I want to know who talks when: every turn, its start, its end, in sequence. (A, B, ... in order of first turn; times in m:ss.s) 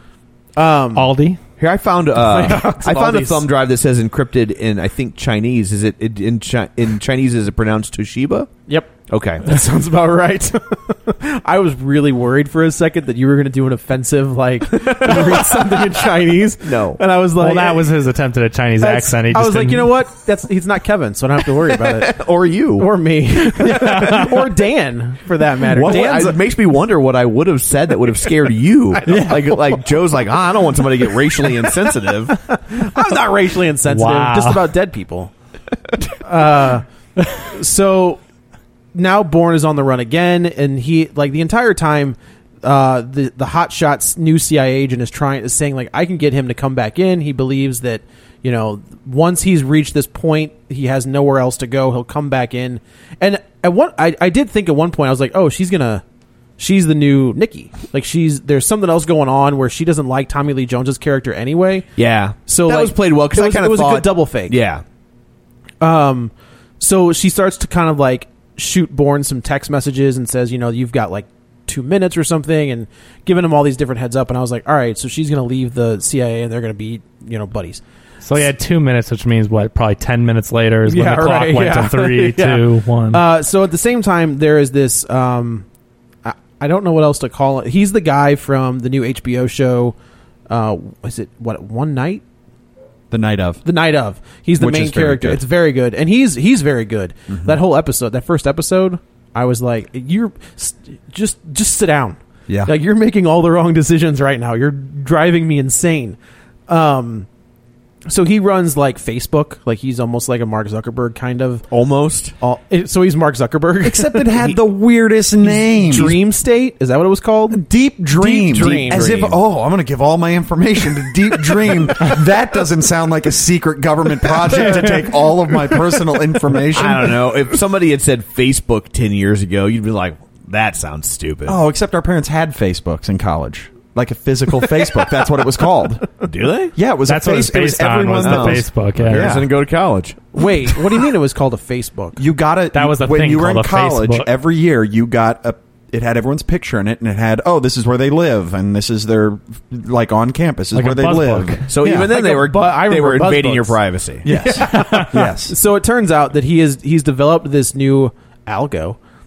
0:00.6-0:01.1 A
0:00.9-0:01.4 B
0:01.6-0:08.5 C
0:02.2-0:03.4 A
0:09.1-0:09.4 C
0:09.4-0:17.9 A
0:14.9-0:15.8 C
0:16.6-0:17.0 C
0:17.4-0:19.9 B
0:18.8-0:22.2 A
0:21.8-0:22.9 C
0:22.8-0:26.5 A
0:23.6-0:24.3 B
0:23.7-0:24.0 C
0:25.7-0:32.4 C
0:28.9-0:29.8 A
0:29.1-0:29.4 B
0:31.1-0:31.9 A
0:32.5-0:35.3 A
0:33.8-0:34.6 B
0:36.2-0:36.8 A
0:37.4-0:38.2 A
0:38.9-0:56.0 A
0:56.6-1:01.9 A
1:02.0-1:04.8 C
1:02.5-1:04.6 A
1:05.8-1:17.8 A
1:18.2-1:23.2 B
1:20.8-1:25.6 A
1:26.2-1:29.9 A
1:30.5-1:32.2 A
1:33.1-1:33.6 D
1:33.6-1:46.2 A
1:34.6-1:35.4 D
1:37.3-1:37.6 D
1:46.7-1:47.3 A
1:48.0-1:51.7 A
1:51.7-1:52.3 C
1:52.4-1:54.4 A
1:53.8-1:56.2 D
1:55.4-1:57.6 A
1:55.9-1:56.2 C
1:57.5-2:07.3 D
1:58.2-1:59.4 C
1:58.2-1:59.3 A
2:04.5-2:04.9 C
2:06.7-2:11.6 C
2:11.4-2:16.1 D
2:16.2-2:16.7 C
2:16.8-2:19.5 D
2:17.1-2:19.4 B
2:18.2-2:20.2 C
2:20.3-2:22.2 A
2:22.2-2:32.1 D
2:22.7-2:24.3 B
2:30.7-2:31.6 B
2:31.7-2:34.2 C
2:31.8-2:39.0 A
2:34.2-2:35.5 D
2:34.6-2:35.1 B